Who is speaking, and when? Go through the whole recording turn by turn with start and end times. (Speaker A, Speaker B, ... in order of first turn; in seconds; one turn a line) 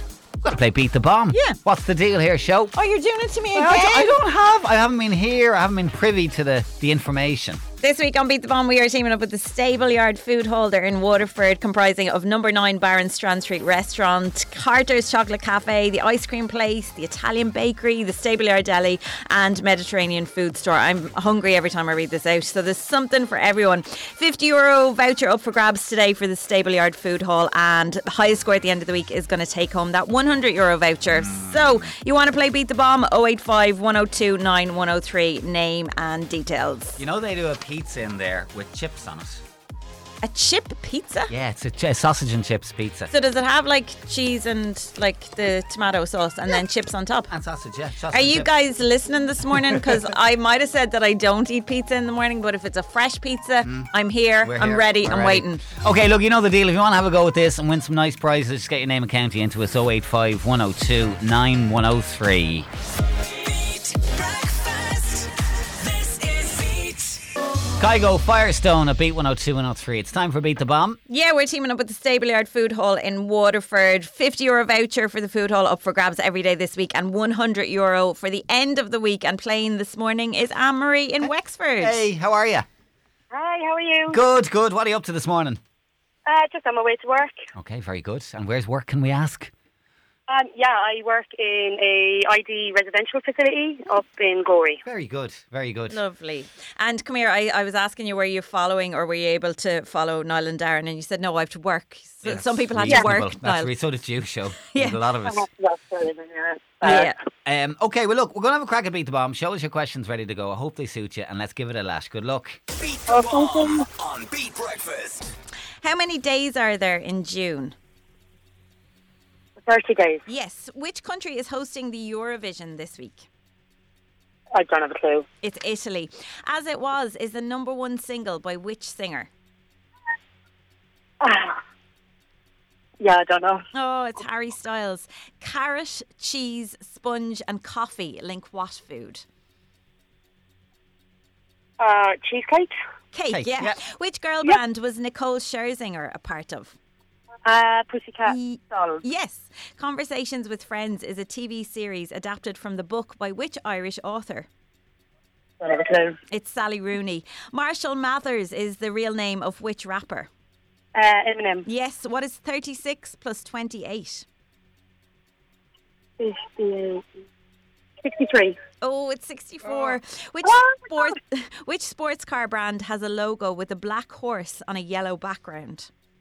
Speaker A: 0.4-2.7
Speaker B: 1.3-1.6
Speaker B: 2.7-4.1
Speaker A: 3.5-7.6
Speaker B: 7.8-37.0
Speaker A: 31.1-31.9
Speaker A: 37.0-39.4
Speaker B: 40.2-41.3
Speaker A: 41.3-43.1
Speaker B: 43.1-47.3
Speaker A: 47.3-48.5
Speaker B: 48.1-55.6
Speaker A: 49.6-50.0
Speaker A: 53.6-53.9
Speaker A: 54.4-62.7
Speaker C: 63.3-65.3
Speaker C: 65.8-67.2
Speaker A: 67.8-71.0
Speaker B: 71.1-82.0
Speaker A: 81.8-82.7
Speaker D: 83.3-84.2
Speaker A: 84.1-85.6
Speaker D: 86.2-87.3
Speaker A: 87.5-89.5
Speaker D: 90.3-94.8
Speaker A: 94.8-96.0
Speaker B: 95.9-103.7
Speaker A: 102.2-105.4
Speaker B: 104.7-105.0
Speaker D: 105.2-107.1
Speaker B: 106.8-107.2
Speaker A: 106.9-112.6
Speaker C: 112.7-115.3
Speaker D: 113.1-113.9
Speaker B: 115.8-117.8
Speaker D: 119.6-120.2
Speaker B: 120.3-123.2
Speaker D: 124.5-125.2
Speaker B: 125.4-129.3
Speaker D: 131.2-131.6
Speaker D: 133.0-133.6
Speaker B: 133.7-139.2
Speaker D: 141.8-142.7
Speaker B: 143.1-146.8
Speaker A: 143.3-143.8
Speaker D: 147.4-149.0
Speaker B: 148.2-154.5
Speaker D: 155.6-156.2
Speaker B: 156.3-160.3
Speaker D: 160.9-161.7
Speaker B: 161.7-164.2
Speaker D: 166.2-167.1
Speaker D: 168.0-168.6
Speaker B: 168.8-175.9
Speaker D: 170.4-171.1